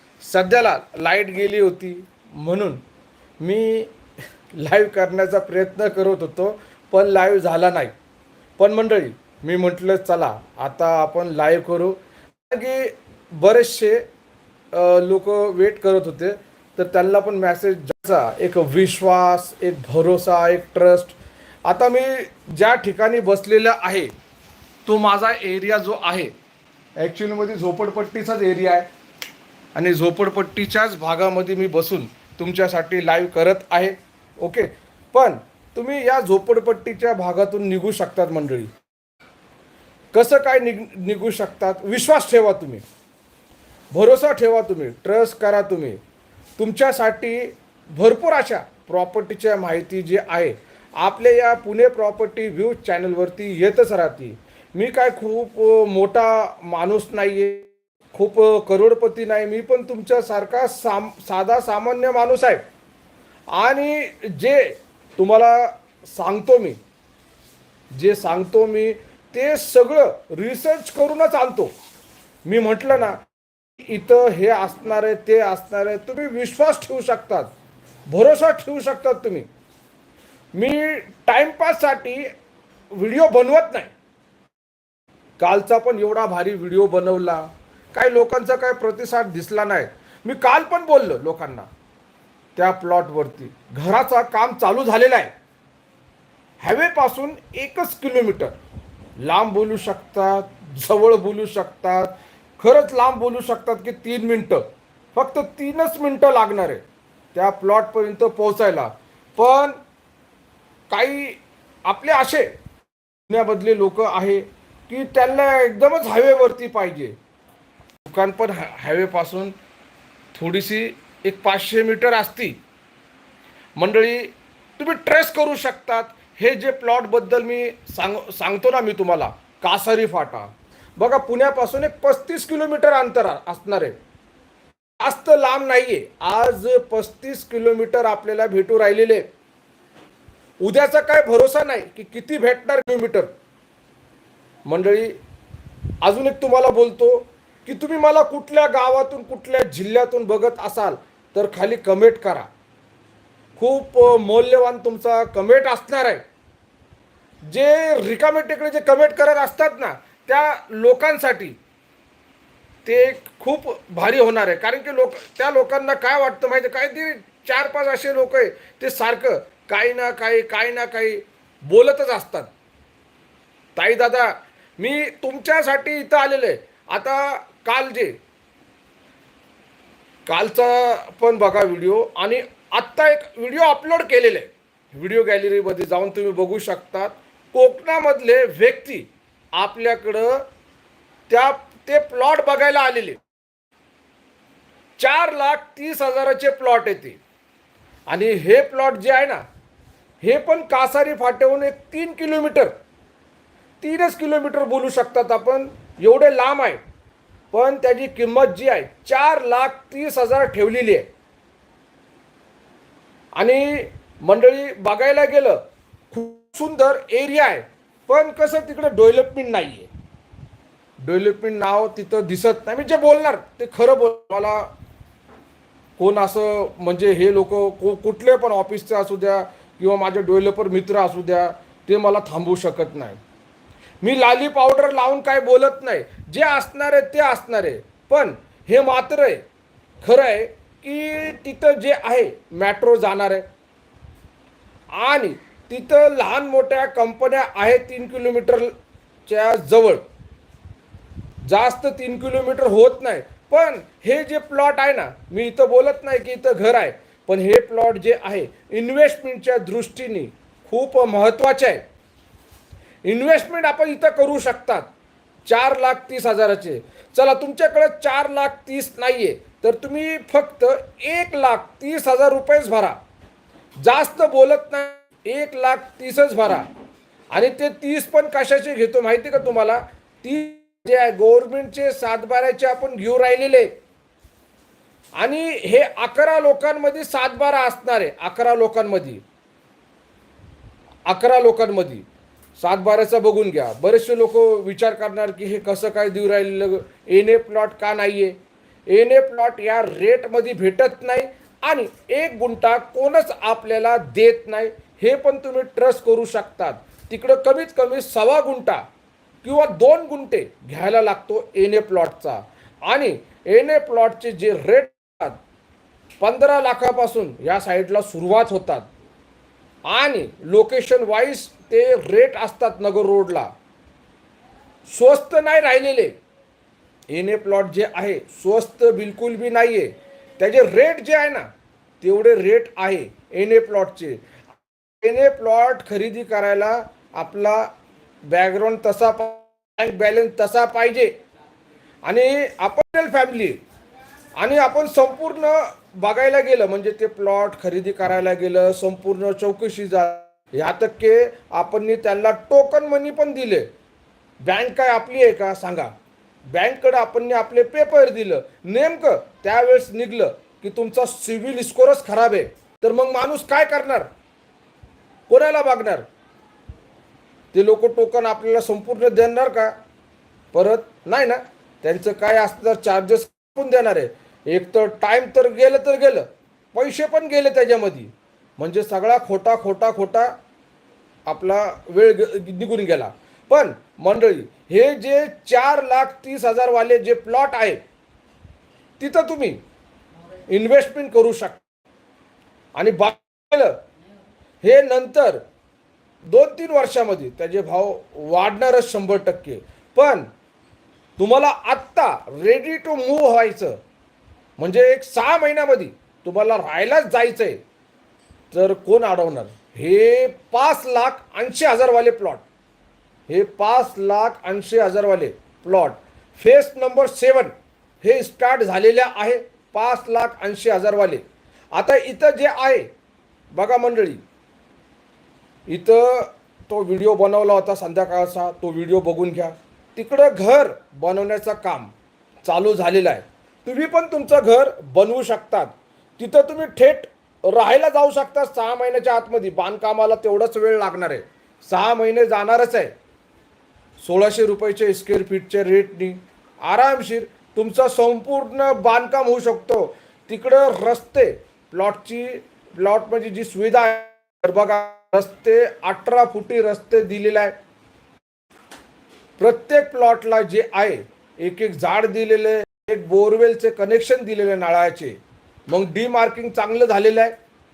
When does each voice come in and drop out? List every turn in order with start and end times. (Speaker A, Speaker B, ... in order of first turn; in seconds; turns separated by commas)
Speaker A: 0.2-2.8, Speaker A: 3.4-3.9, Speaker A: 4.5-7.9, Speaker A: 8.6-12.0, Speaker A: 12.5-14.1, Speaker A: 14.7-24.1, Speaker A: 24.8-26.3, Speaker A: 27.0-28.9, Speaker A: 29.7-38.7, Speaker A: 40.1-42.8, Speaker A: 43.9-46.0, Speaker A: 46.6-62.6, Speaker A: 63.5-66.8, Speaker A: 67.9-71.7, Speaker A: 72.5-73.2, Speaker A: 73.8-77.5, Speaker A: 78.1-79.5, Speaker A: 80.5-82.3, Speaker A: 82.9-83.9, Speaker A: 85.4-91.7, Speaker A: 92.6-95.3, Speaker A: 96.6-98.5, Speaker A: 99.2-106.8, Speaker A: 107.3-109.8, Speaker A: 110.9-112.5, Speaker A: 113.3-117.2, Speaker A: 118.0-119.5, Speaker A: 120.3-122.6, Speaker A: 123.8-133.9, Speaker A: 135.0-139.3, Speaker A: 140.6-143.3, Speaker A: 144.7-145.2, Speaker A: 146.0-152.5, Speaker A: 153.6-156.2, Speaker A: 157.5-161.6, Speaker A: 162.8-172.5, Speaker A: 173.8-178.2, Speaker A: 180.3-190.4, Speaker A: 191.3-193.2, Speaker A: 195.0-197.2, Speaker A: 198.1-199.4, Speaker A: 200.2-202.7, Speaker A: 203.8-206.8, Speaker A: 207.5-211.1, Speaker A: 213.3-215.6, Speaker A: 216.1-219.9, Speaker A: 221.0-224.7, Speaker A: 226.0-233.2, Speaker A: 234.0-239.4, Speaker A: 240.0-243.4, Speaker A: 244.9-248.7, Speaker A: 249.2-250.0, Speaker A: 251.4-261.8, Speaker A: 263.1-264.9, Speaker A: 265.5-273.0, Speaker A: 273.8-276.7, Speaker A: 277.3-283.7, Speaker A: 285.2-289.2, Speaker A: 291.1-292.1, Speaker A: 292.6-298.4, Speaker A: 298.9-308.8, Speaker A: 309.4-315.4, Speaker A: 316.2-318.9, Speaker A: 319.9-323.5, Speaker A: 324.9-326.2, Speaker A: 327.1-331.5, Speaker A: 332.0-334.2, Speaker A: 335.0-337.7, Speaker A: 338.3-341.1, Speaker A: 342.1-343.6, Speaker A: 344.4-353.7, Speaker A: 354.4-355.9, Speaker A: 356.5-364.1, Speaker A: 365.3-366.1, Speaker A: 367.5-369.8, Speaker A: 370.5-380.3, Speaker A: 381.2-387.8, Speaker A: 389.0-389.6, Speaker A: 390.5-391.6, Speaker A: 392.8-393.8, Speaker A: 394.6-395.4, Speaker A: 396.2-400.3, Speaker A: 401.2-403.8, Speaker A: 404.6-407.6, Speaker A: 408.5-412.4, Speaker A: 413.3-421.2, Speaker A: 421.7-422.9, Speaker A: 423.5-424.2, Speaker A: 425.7-431.9, Speaker A: 432.4-442.9, Speaker A: 444.0-457.6, Speaker A: 459.4-467.4